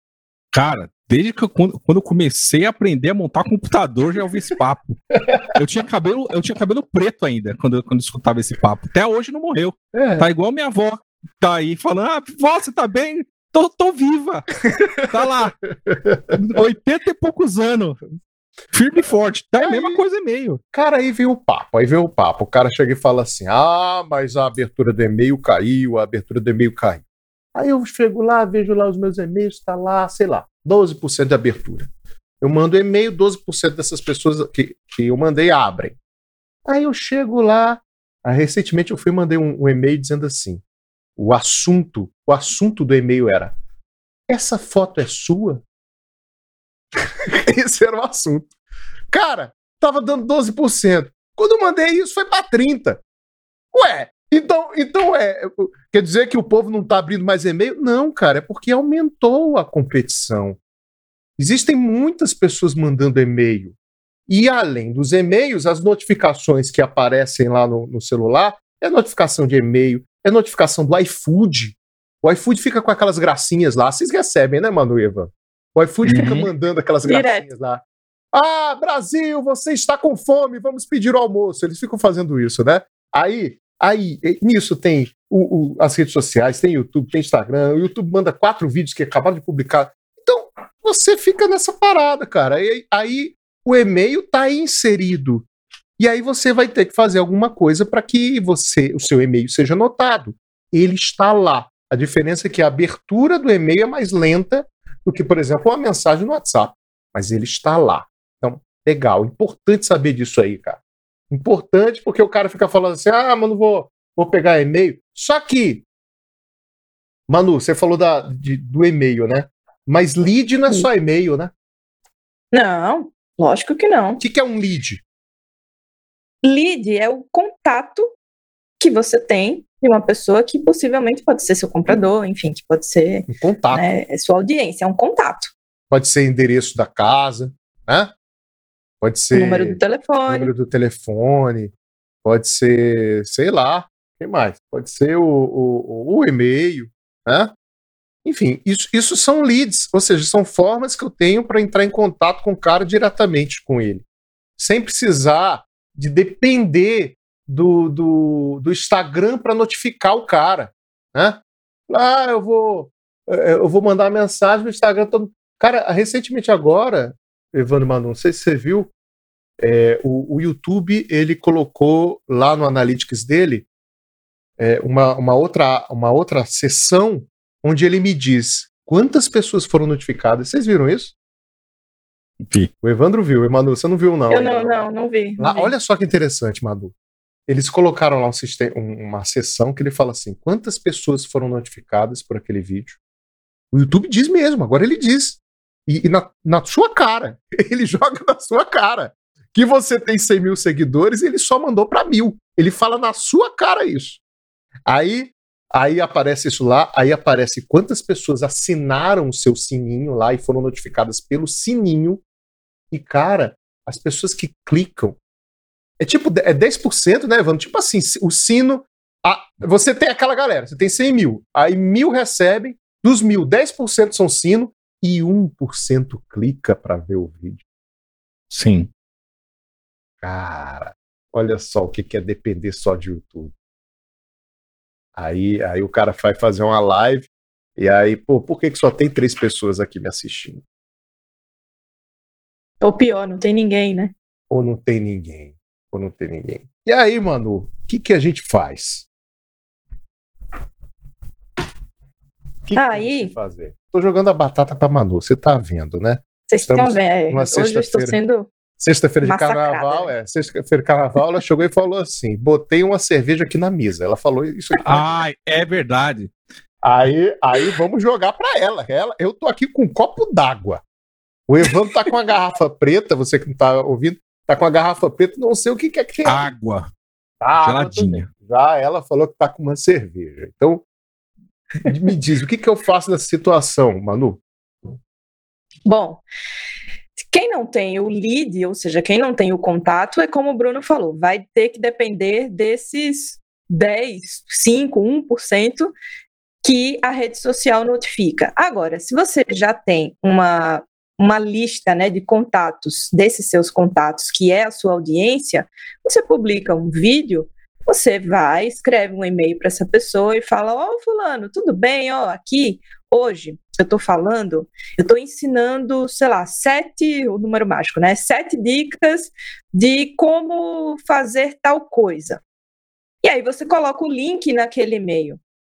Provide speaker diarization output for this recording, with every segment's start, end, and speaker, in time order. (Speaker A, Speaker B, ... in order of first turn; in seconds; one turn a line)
Speaker A: 0.5-15.6
Speaker B: 9.9-10.3
Speaker B: 15.0-15.3
Speaker B: 15.9-16.4
Speaker A: 16.3-18.0
Speaker A: 18.7-20.6
Speaker B: 19.6-20.0
Speaker B: 20.7-27.0
Speaker B: 27.6-31.9
Speaker B: 32.4-36.0
Speaker B: 36.7-40.6
Speaker B: 41.2-43.5
Speaker B: 44.3-45.6
Speaker B: 47.0-48.5
Speaker B: 49.1-53.0
Speaker B: 53.7-60.6
Speaker B: 61.4-63.8
Speaker B: 64.3-77.8
Speaker A: 76.0-76.5
Speaker C: 77.0-77.5
Speaker B: 78.3-95.5
Speaker B: 96.0-110.8
Speaker B: 111.3-115.8
Speaker B: 117.3-121.5
Speaker C: 122.5-124.2
Speaker B: 124.2-125.0
Speaker C: 126.4-128.1
Speaker C: 128.8-135.5
Speaker B: 133.3-133.8
Speaker B: 135.9-138.1
Speaker B: 139.0-141.7
Speaker C: 139.3-140.5
Speaker B: 142.2-147.5
Speaker B: 148.2-154.0
Speaker B: 154.6-168.9
Speaker B: 169.6-173.7
Speaker B: 174.6-181.1
Speaker B: 182.8-184.8
Speaker C: 184.3-185.7
Speaker B: 185.4-186.9
Speaker B: 187.5-193.0
Speaker B: 193.7-204.2
Speaker B: 204.9-212.2
Speaker B: 212.9-215.2
Speaker B: 216.0-227.6
Speaker A: 228.5-228.9
Speaker B: 230.2-233.5
Speaker B: 235.2-240.6
Speaker C: 242.8-244.1
Speaker B: 244.5-249.1
Speaker B: 252.7-258.2
Speaker C: 252.7-253.3
Speaker C: 256.5-258.5
Speaker B: 258.8-265.2
Speaker C: 259.2-260.1
Speaker A: 264.8-266.3
Speaker B: 266.8-270.8
Speaker B: 271.5-276.5
Speaker A: 276.2-276.9
Speaker B: 277.4-280.8
Speaker A: 277.6-278.3
Speaker B: 281.8-284.4
Speaker C: 285.9-286.2
Speaker C: 287.3-295.9
Speaker C: 296.6-322.4
Speaker C: 323.2-325.4